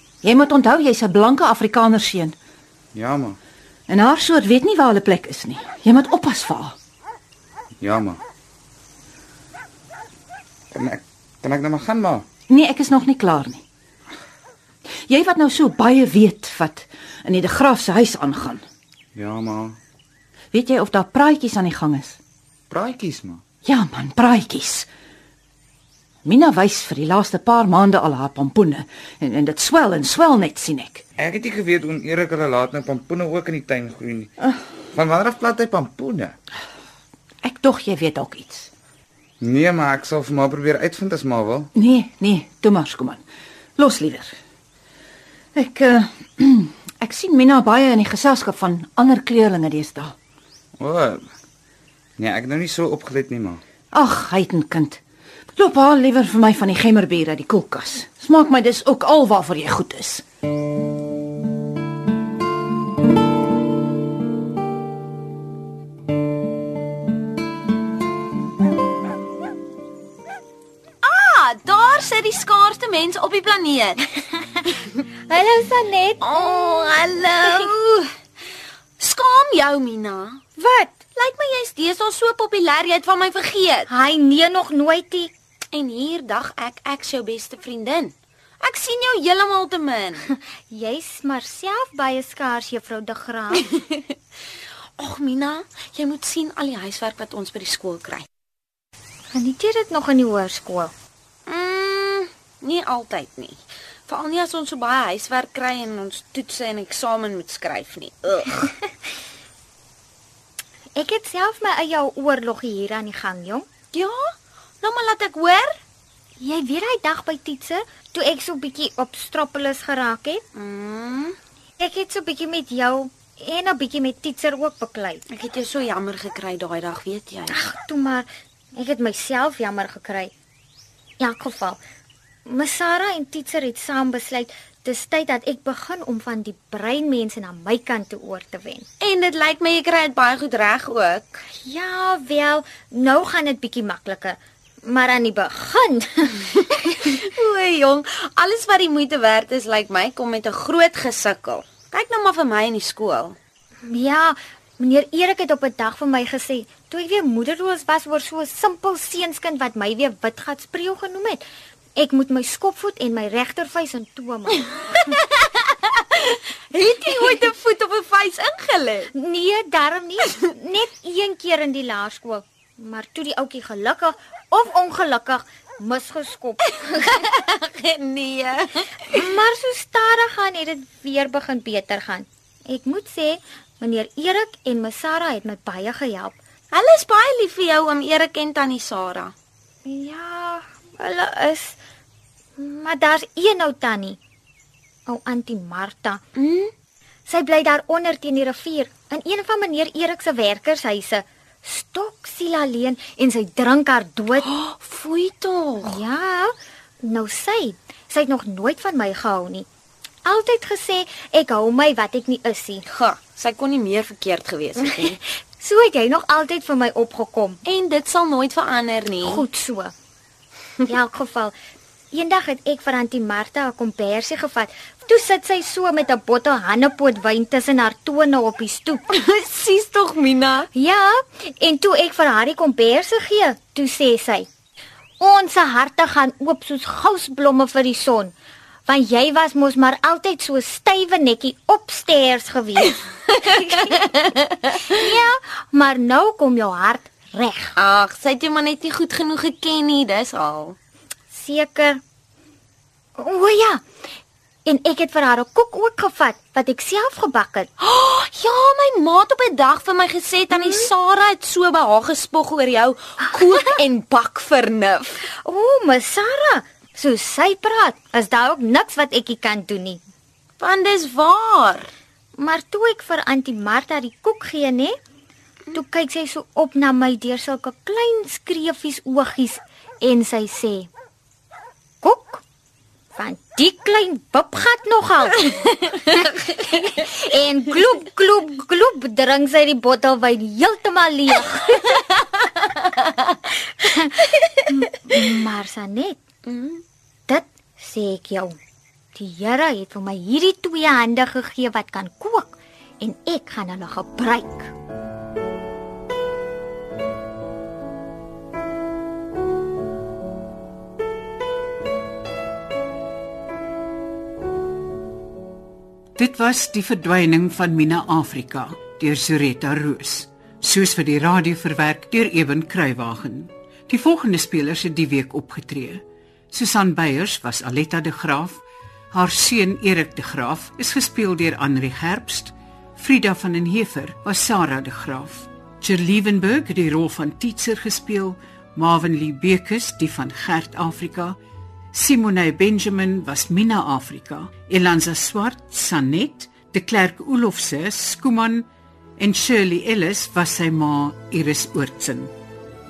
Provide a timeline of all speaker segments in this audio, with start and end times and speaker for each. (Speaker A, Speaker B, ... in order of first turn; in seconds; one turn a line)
Speaker A: 0.2-2.4
Speaker B: 2.9-3.4
Speaker A: 3.9-6.8
Speaker B: 7.8-8.2
Speaker B: 10.7-12.2
Speaker A: 12.5-13.6
Speaker A: 15.1-18.6
Speaker B: 19.1-19.8
Speaker A: 20.5-22.2
Speaker B: 22.7-23.4
Speaker A: 23.6-24.9
Speaker A: 26.2-31.0
Speaker B: 31.2-34.3
Speaker B: 34.9-36.4
Speaker A: 37.4-38.7
Speaker B: 39.4-41.7
Speaker A: 41.7-43.2
Speaker A: 43.8-44.3
Speaker A: 45.5-50.1
Speaker B: 50.8-51.3
Speaker B: 52.2-53.6
Speaker A: 53.9-55.0
Speaker A: 55.5-60.2
Speaker C: 71.0-75.0
Speaker D: 75.3-76.9
Speaker C: 76.2-78.1
Speaker C: 79.0-83.9
Speaker D: 83.9-85.3
Speaker C: 85.7-90.3
Speaker D: 90.7-93.6
Speaker C: 93.5-94.1
Speaker C: 95.0-98.3
Speaker D: 99.3-100.9
Speaker C: 101.5-108.7
Speaker D: 111.0-113.7
Speaker C: 113.9-115.8
Speaker D: 116.4-120.4
Speaker C: 120.5-121.4
Speaker D: 121.8-125.2
Speaker C: 125.3-127.7
Speaker D: 127.5-130.3
Speaker D: 131.2-131.8
Speaker D: 132.5-138.9
Speaker C: 139.0-141.4
Speaker D: 141.6-146.4
Speaker C: 146.4-153.4
Speaker D: 153.9-161.4
Speaker D: 162.0-165.0
Speaker C: 164.6-169.1
Speaker D: 169.2-177.0
Speaker C: 170.2-170.5
Speaker C: 176.6-179.4
Speaker D: 179.2-186.4
Speaker C: 186.7-189.3
Speaker D: 189.9-191.8
Speaker D: 192.6-194.2
Speaker D: 195.1-196.2
Speaker C: 196.3-196.7
Speaker D: 197.3-204.5
Speaker C: 204.4-206.0
Speaker D: 205.9-209.7
Speaker D: 210.3-212.8
Speaker C: 212.8-215.2
Speaker D: 215.6-217.6
Speaker C: 217.6-219.5
Speaker D: 219.3-219.9
Speaker D: 220.9-221.5
Speaker D: 222.1-229.0
Speaker C: 229.1-230.7
Speaker D: 230.7-234.5
Speaker D: 235.2-238.3
Speaker D: 238.9-243.9
Speaker C: 243.4-245.0
Speaker D: 244.9-247.7
Speaker C: 247.8-250.8
Speaker D: 251.3-252.0
Speaker D: 253.2-253.8
Speaker D: 254.7-257.7
Speaker C: 257.8-265.3
Speaker D: 265.4-270.0
Speaker C: 270.6-271.9
Speaker D: 272.4-274.9
Speaker D: 275.7-280.9
Speaker D: 282.0-282.4
Speaker D: 283.2-286.2
Speaker C: 285.9-286.8
Speaker D: 286.8-292.0
Speaker C: 292.1-293.4
Speaker D: 294.7-296.2
Speaker C: 296.4-296.8
Speaker D: 297.3-298.6
Speaker D: 299.1-304.7
Speaker E: 316.2-341.4
Speaker E: 341.9-348.7
Speaker E: 349.2-352.3